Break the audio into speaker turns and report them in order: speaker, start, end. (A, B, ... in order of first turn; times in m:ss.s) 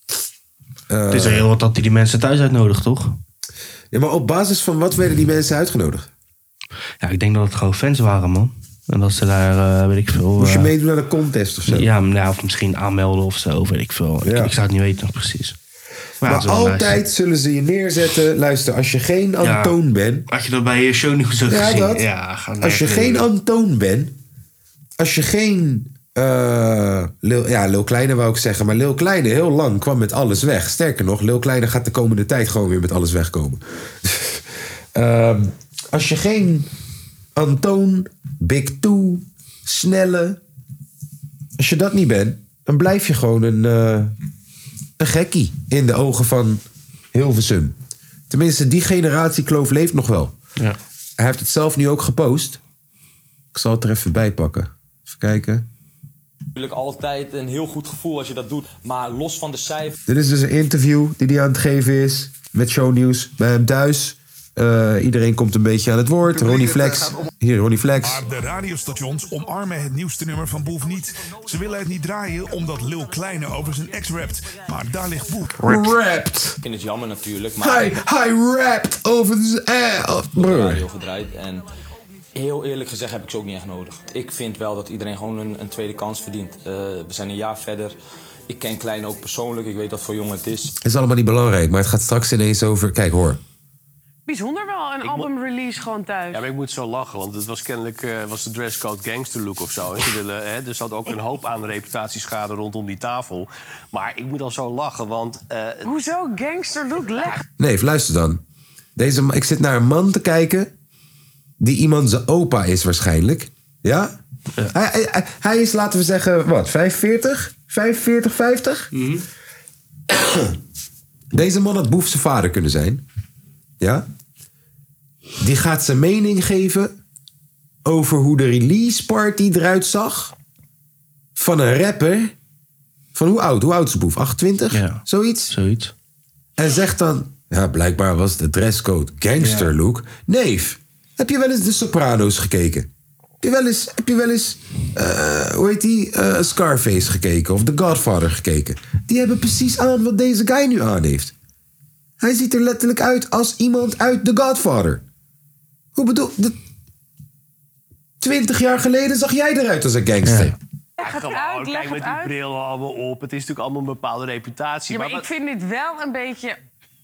0:00.9-0:01.5 A
0:01.1-0:03.2 B
0:03.9-0:06.1 A
0:07.0-0:10.7 B
0:10.4-0:11.9 A
0:11.7-0:15.6 B
0:14.2-0:14.5 A
0:16.2-0:17.0 B
0:16.2-0:20.3 A
0:19.4-0:19.8 B
0:20.3-0:23.3 B
0:21.5-0:22.1 A
0:22.6-0:24.2 A
0:25.0-0:36.7 A
0:37.4-0:40.4 A
0:41.6-0:44.2 A
0:45.0-0:46.6 A
0:47.1-0:47.8 A
0:48.3-0:50.3 A
0:51.2-0:52.6 A
0:53.5-0:55.7 A
0:56.6-1:00.0 C
1:00.1-1:08.2 A
1:08.0-1:15.6 D
1:15.6-1:16.6 A
1:16.6-1:18.0 C
1:17.6-1:20.8 A
1:20.4-1:21.7 C
1:22.4-1:27.9 C
1:28.5-1:30.7 C
1:30.8-1:33.4 A
1:34.3-1:36.5 E
1:35.0-1:35.3 F
1:36.3-1:45.9 F
1:45.8-1:47.4 E
1:47.6-1:48.4 A
1:49.0-1:50.7 A
1:51.6-1:54.1 A
1:54.7-1:58.9 A
1:58.9-1:59.2 B
2:00.1-2:00.6 A
2:01.3-2:03.0 A
2:03.8-2:04.0 A
2:05.4-2:06.9 A
2:07.8-2:10.3 A
2:11.4-2:12.4 A
2:13.2-2:15.6 A
2:14.7-2:15.9 B
2:16.6-2:22.9 A
2:19.4-2:19.7 B
2:23.4-2:31.3 A
2:32.2-2:35.0 A
2:36.0-2:36.6 A
2:38.2-2:40.6 A
2:40.2-2:40.6 B
2:41.0-2:42.4 E
2:41.0-2:45.3 F
2:44.9-2:46.6 E